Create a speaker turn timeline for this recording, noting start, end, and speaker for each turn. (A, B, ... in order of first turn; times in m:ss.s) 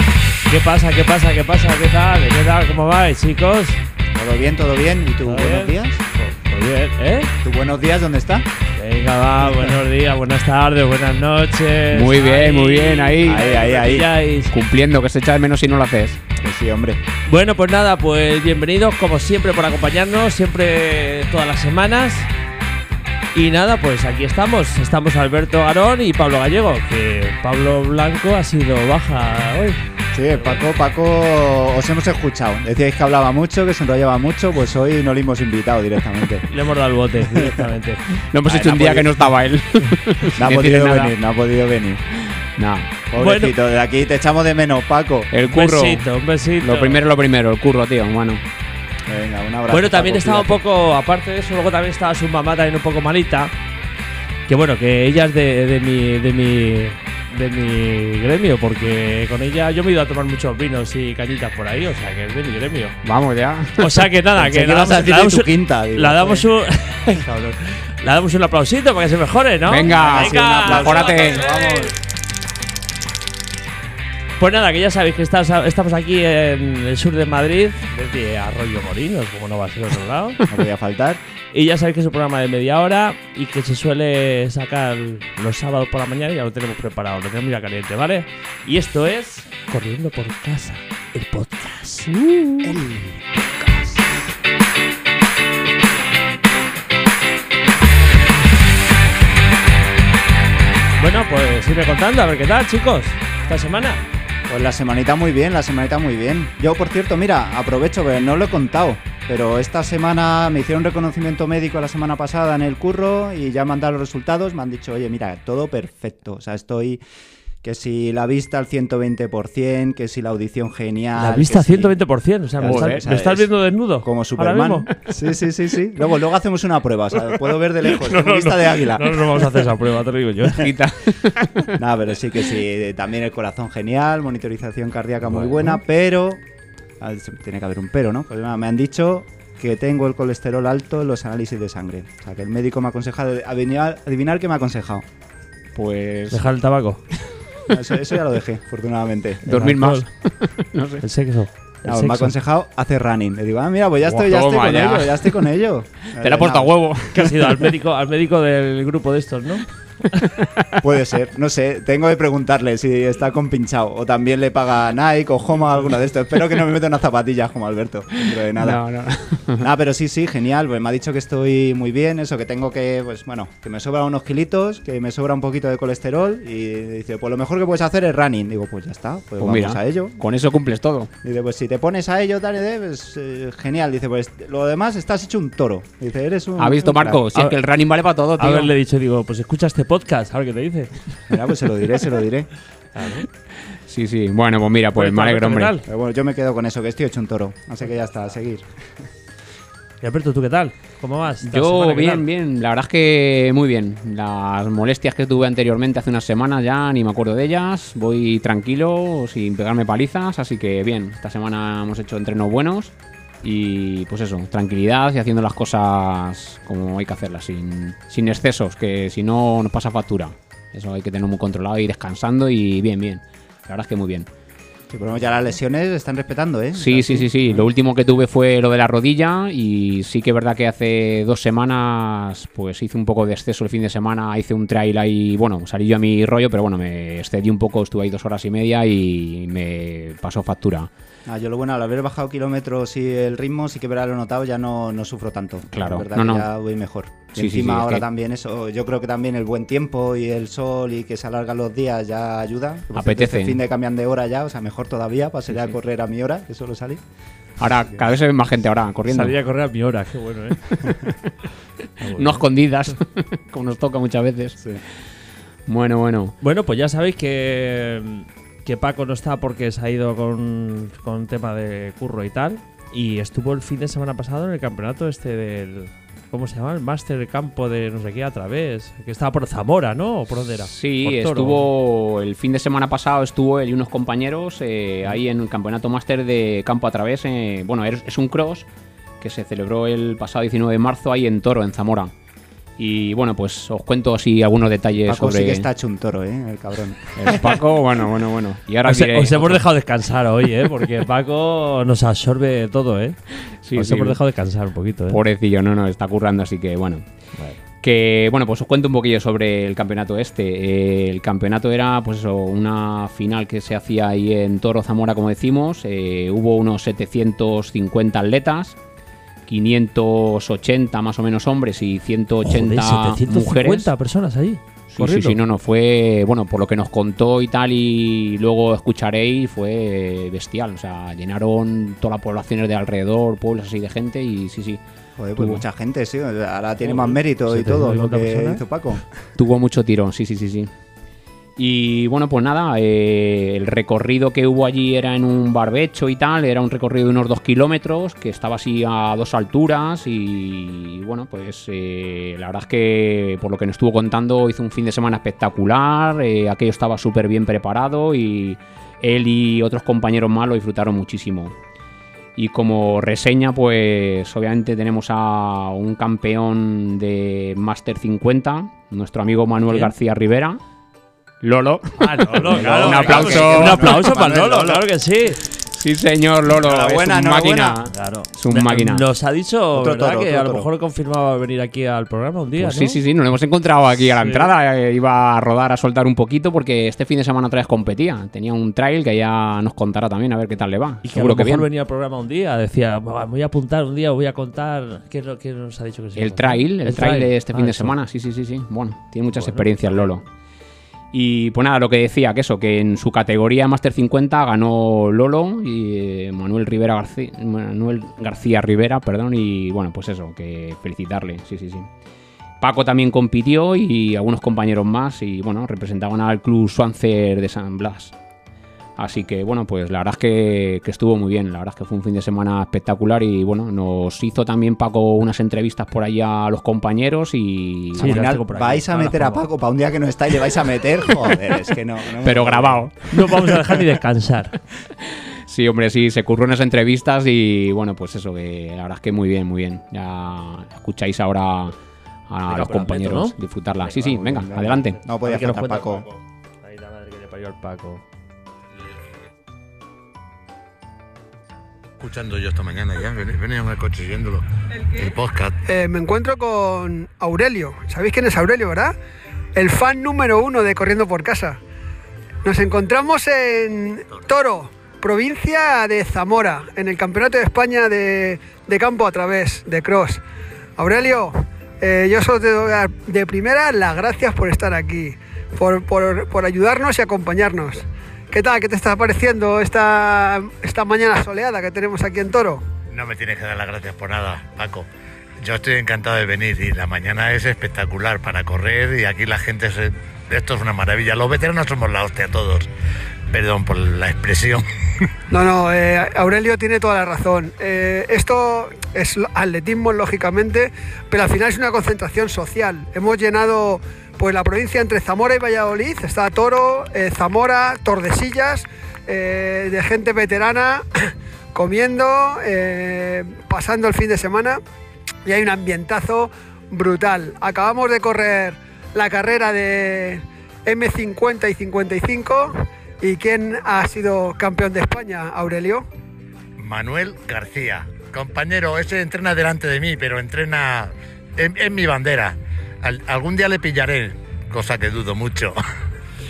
0:00.5-0:03.8 A
0:04.1-0:06.0 B
0:05.2-0:07.3 A
0:07.4-0:08.5 B
0:08.8-0:14.5 A
0:09.4-0:09.8 B
0:11.9-0:13.5 C
0:13.2-0:14.1 B
0:14.5-0:16.2 C
0:16.4-0:17.0 B
0:17.3-0:22.3 A
0:23.3-0:29.8 A
0:30.1-0:36.4 B
0:30.3-0:30.6 A
0:36.5-0:38.0 A
0:37.4-0:37.6 B
0:38.3-0:41.1 C
0:38.4-0:39.2 B
0:40.4-0:42.0 B
0:42.6-0:42.9 C
0:43.1-0:45.3 B
0:43.2-0:43.5 A
0:45.3-0:46.1 C
0:45.5-0:47.0 A
0:46.6-0:48.4 C
0:49.1-0:50.6 B
0:49.7-0:53.5 A
0:54.5-1:03.0 A
1:03.0-1:04.1 C
1:03.8-1:11.9 A
1:04.4-1:06.5 B
1:09.7-1:11.5 C
1:09.9-1:11.9 B
1:14.4-1:20.4 A
1:20.5-1:21.2 B
1:21.5-1:32.8 A
1:32.6-1:34.0 B
1:41.0-1:44.0 A
1:44.5-1:57.0 B
1:57.6-2:01.9 B
2:01.2-2:04.9 A
2:02.6-2:03.5 B
2:02.6-2:03.0 C
2:04.0-2:09.6 B
2:07.8-2:10.6 A
2:10.5-2:11.8 C
2:11.7-2:16.4 B
2:15.2-2:15.5 A
2:17.0-2:25.1 B
2:25.8-2:26.4 C
2:26.3-2:27.0 A
2:27.7-2:29.4 B
2:29.4-2:31.0 C
2:29.5-2:30.1 A
2:31.0-2:32.3 A
2:31.8-2:36.8 B
2:34.0-2:35.4 C
2:36.2-2:37.6 C
2:37.1-2:40.2 A
2:40.2-2:40.7 C
2:40.8-2:48.8 B
2:48.2-2:49.7 C
2:49.6-3:00.2 B
2:59.4-3:01.1 C
3:01.2-3:07.2 B
3:06.6-3:08.7 C
3:08.4-3:10.9 A
3:11.3-3:12.5 B
3:13.0-3:13.3 A
3:13.9-3:15.7 C
3:15.0-3:15.8 A
3:15.9-3:18.7 B
3:20.0-3:22.2 A
3:21.4-3:44.3 C
3:44.9-3:47.7 B
3:46.8-4:00.9 C
4:01.3-4:17.0 B
4:05.7-4:06.5 C
4:07.3-4:08.0 C
4:13.0-4:13.6 C
4:17.6-4:19.4 C
4:19.1-4:20.8 A
4:20.7-4:21.2 C
4:22.0-4:22.4 A
4:22.1-4:24.7 C
4:25.7-4:26.4 C
4:26.4-4:41.6 A
4:40.6-4:48.7 C
4:49.2-4:52.1 C
4:52.8-4:55.7 C
4:55.1-4:57.3 B
4:57.2-4:59.6 C
4:58.8-5:03.2 A
5:03.5-5:04.2 C
5:03.8-5:05.2 A
5:05.1-5:07.0 C
5:07.8-5:18.8 C
5:19.5-5:23.9 C
5:22.4-5:25.4 A
5:24.9-5:34.8 C
5:35.2-5:39.0 B
5:35.4-5:35.6 C
5:36.8-5:38.6 A
5:39.4-5:40.7 C
5:41.6-6:01.5 C
6:02.4-6:10.6 C
6:11.4-6:14.1 C
6:12.0-6:15.4 A
6:12.4-6:14.9 B
6:15.6-6:19.1 C
6:16.5-6:17.8 B
6:17.9-6:23.0 A
6:19.7-6:20.7 B
6:22.6-6:31.7 C
6:24.2-6:24.5 A
6:31.0-6:38.0 A
6:36.2-6:40.2 C
6:39.4-6:40.1 A
6:41.1-6:51.9 C
6:52.6-6:58.1 C
6:59.0-7:08.3 C
7:08.0-7:12.9 B
7:08.0-7:09.5 A
7:12.2-7:13.3 C
7:13.1-7:14.6 A
7:15.0-7:21.8 C
7:22.3-7:25.0 C
7:22.5-7:28.0 A
7:24.0-7:26.1 B
7:32.0-7:35.6 D
7:35.7-7:38.9 E
7:39.6-7:41.6 E
7:42.4-7:50.2 E
7:50.8-8:02.6 E
8:02.9-8:04.9 D
8:05.4-8:12.7 D
8:13.3-8:14.6 D
8:15.3-8:34.6 E
8:35.2-8:45.9 E
8:46.6-8:55.6 D